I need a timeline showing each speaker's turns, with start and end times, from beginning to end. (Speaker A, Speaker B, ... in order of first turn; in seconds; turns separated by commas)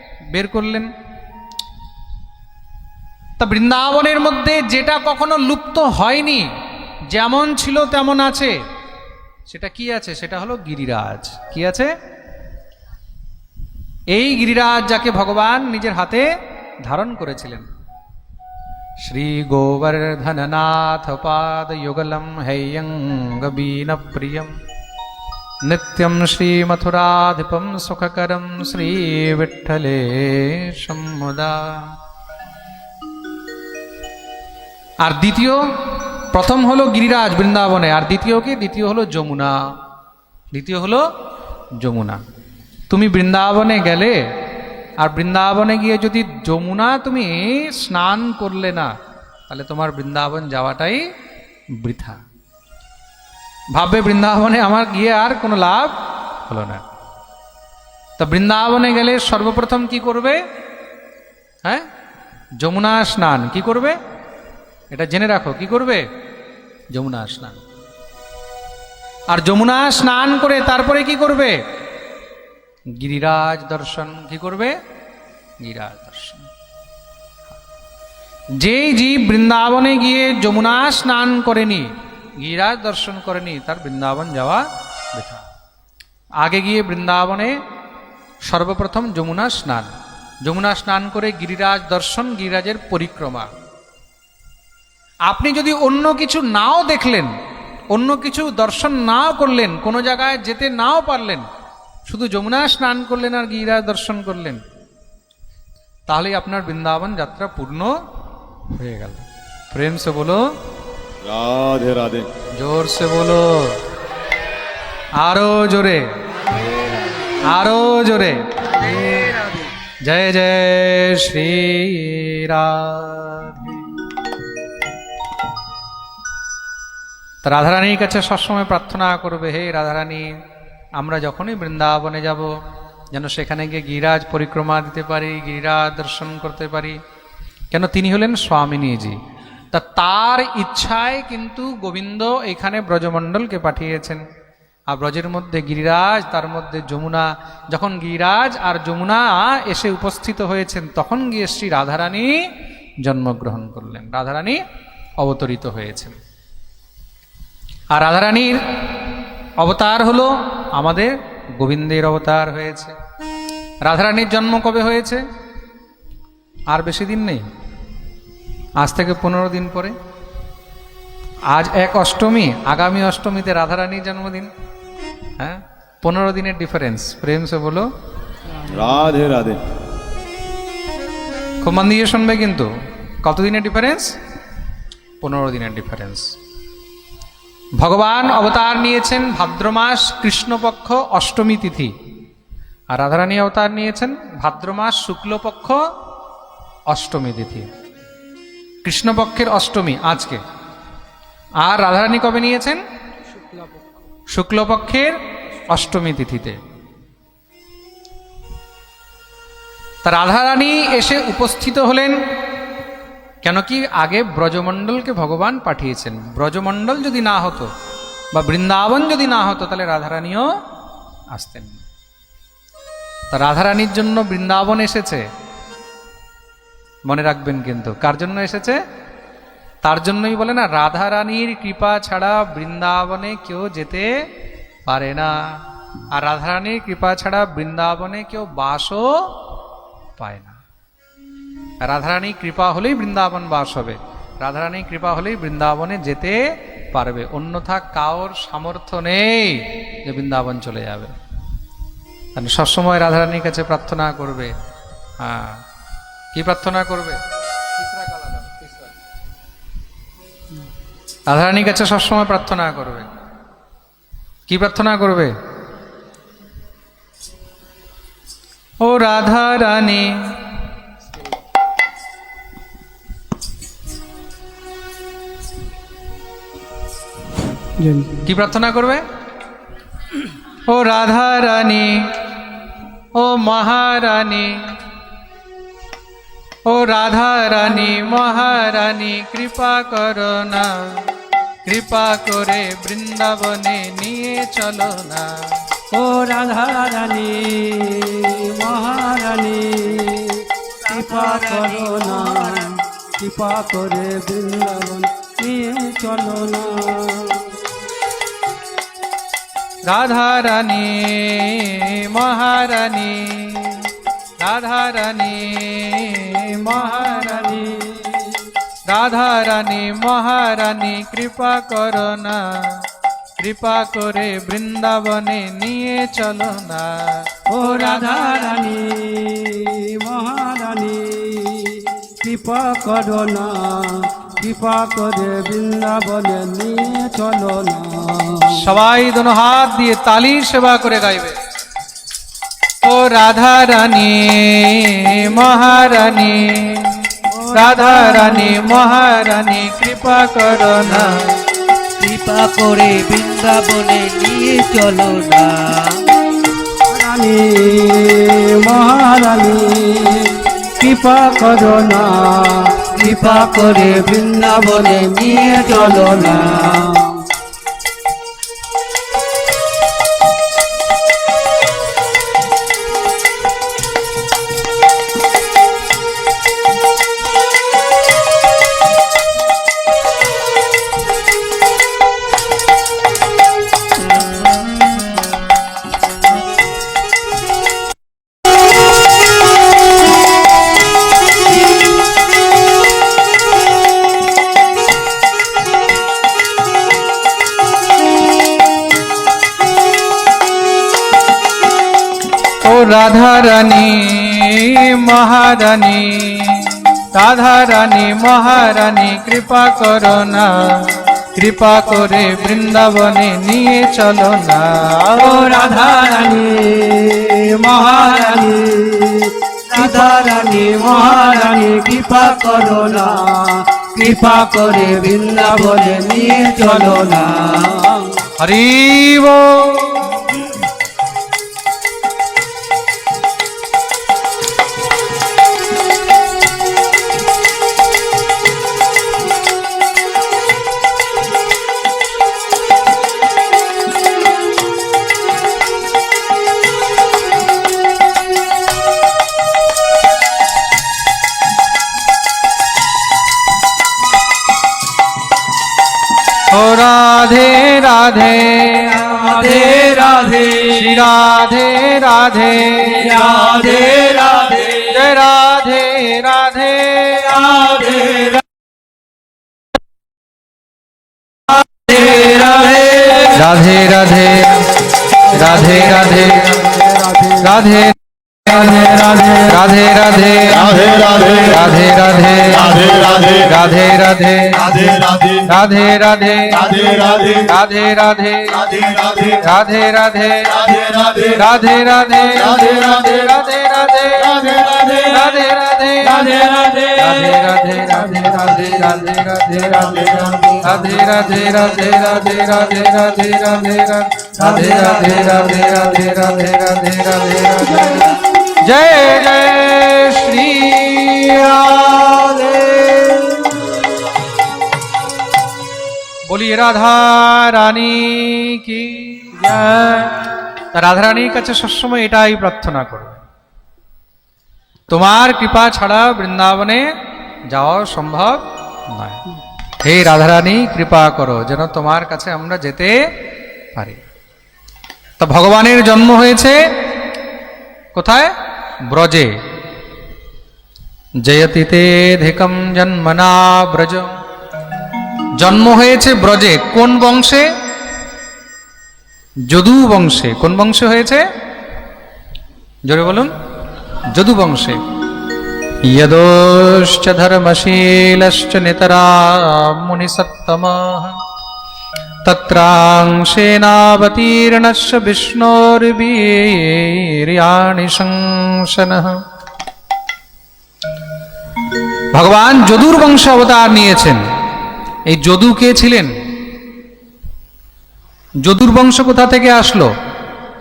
Speaker A: 0.3-0.9, Speaker A: 3.4-6.5, Speaker A: 7.1-8.6, Speaker A: 9.5-11.9, Speaker A: 14.1-16.3, Speaker A: 16.8-17.7, Speaker A: 19.1-24.5, Speaker A: 25.6-31.9, Speaker A: 35.0-35.7, Speaker A: 36.3-39.6, Speaker A: 40.5-41.1, Speaker A: 41.8-42.2, Speaker A: 42.9-44.2, Speaker A: 45.0-48.9, Speaker A: 49.5-51.0, Speaker A: 51.8-52.2, Speaker A: 53.8-56.8, Speaker A: 58.2-60.4, Speaker A: 62.6-64.0, Speaker A: 64.9-66.0, Speaker A: 66.9-67.6, Speaker A: 69.3-71.6, Speaker A: 73.0-74.8, Speaker A: 75.6-76.5, Speaker A: 78.6-85.5, Speaker A: 86.4-87.6, Speaker A: 88.5-89.9, Speaker A: 90.4-93.5, Speaker A: 95.3-97.3, Speaker A: 97.9-101.5, Speaker A: 102.1-104.6, Speaker A: 106.1-108.0, Speaker A: 108.7-110.4, Speaker B: 111.2-112.3, Speaker A: 112.6-113.8, Speaker A: 115.2-116.1, Speaker A: 117.5-119.2, Speaker A: 120.1-123.8, Speaker A: 127.4-130.3, Speaker A: 131.0-132.5, Speaker A: 133.1-137.0, Speaker A: 137.7-139.2, Speaker A: 139.7-144.2, Speaker A: 144.9-152.3, Speaker A: 153.0-154.6, Speaker A: 155.2-156.2, Speaker A: 157.9-158.6, Speaker A: 159.6-162.9, Speaker A: 163.8-165.2, Speaker A: 166.7-167.4, Speaker A: 168.8-169.9, Speaker A: 171.5-174.5, Speaker A: 175.4-177.9, Speaker B: 178.7-179.6, Speaker A: 181.6-182.7, Speaker A: 183.2-184.1, Speaker A: 185.2-186.3, Speaker A: 187.8-191.9, Speaker A: 192.9-195.8, Speaker A: 196.9-197.7, Speaker A: 198.8-200.4, Speaker A: 201.6-202.8, Speaker A: 204.3-206.6, Speaker A: 210.0-212.2, Speaker A: 213.4-217.7, Speaker A: 218.3-220.5, Speaker A: 221.3-221.8, Speaker A: 223.3-225.2, Speaker A: 227.1-228.8, Speaker A: 229.8-234.1, Speaker A: 234.9-235.3, Speaker A: 236.2-239.2, Speaker A: 240.2-240.6, Speaker A: 241.8-246.4, Speaker A: 246.9-251.1, Speaker A: 252.3-254.5, Speaker A: 255.2-255.6, Speaker A: 256.3-257.2, Speaker A: 257.8-258.8, Speaker A: 261.3-263.1, Speaker A: 264.5-265.3, Speaker A: 268.8-270.2, Speaker C: 277.8-278.2, Speaker A: 278.3-279.0, Speaker A: 280.7-282.1, Speaker A: 283.1-284.6, Speaker A: 286.7-291.0, Speaker A: 291.7-295.3, Speaker C: 295.9-307.5, Speaker D: 300.9-302.7, Speaker A: 309.9-313.9, Speaker A: 314.4-317.6, Speaker C: 316.8-318.4, Speaker A: 318.9-322.8, Speaker A: 323.4-328.4, Speaker C: 327.5-338.6, Speaker A: 338.5-341.4, Speaker A: 342.8-346.9, Speaker C: 347.3-348.7, Speaker A: 347.5-351.3, Speaker D: 352.0-356.0, Speaker C: 356.9-367.2, Speaker D: 363.0-363.9, Speaker D: 364.8-366.5, Speaker A: 402.6-415.3, Speaker C: 415.2-428.1, Speaker D: 419.8-420.0, Speaker A: 428.4-430.0, Speaker A: 456.5-459.5, Speaker C: 459.4-460.4, Speaker A: 460.5-463.6, Speaker C: 463.2-464.2, Speaker A: 464.6-467.8, Speaker A: 473.2-474.7, Speaker A: 475.3-476.7, Speaker A: 477.4-480.7, Speaker B: 480.5-481.6, Speaker A: 481.4-484.8, Speaker B: 482.6-483.4, Speaker B: 484.7-485.4, Speaker A: 485.5-486.8, Speaker B: 486.7-487.4, Speaker A: 487.4-488.7, Speaker B: 488.8-489.3, Speaker A: 489.3-513.6, Speaker B: 490.7-491.2, Speaker A: 516.3-523.2, Speaker A: 524.9-526.9, Speaker A: 527.5-529.2, Speaker A: 529.8-533.0, Speaker A: 533.8-534.0, Speaker A: 535.2-536.7, Speaker A: 537.9-538.3, Speaker A: 538.9-539.3, Speaker A: 541.2-544.1, Speaker A: 545.4-547.5, Speaker A: 549.5-551.2, Speaker A: 552.9-553.3, Speaker A: 554.1-554.8, Speaker A: 555.9-561.2, Speaker A: 562.3-569.2, Speaker A: 572.1-574.2, Speaker A: 575.1-576.1, Speaker A: 578.4-579.9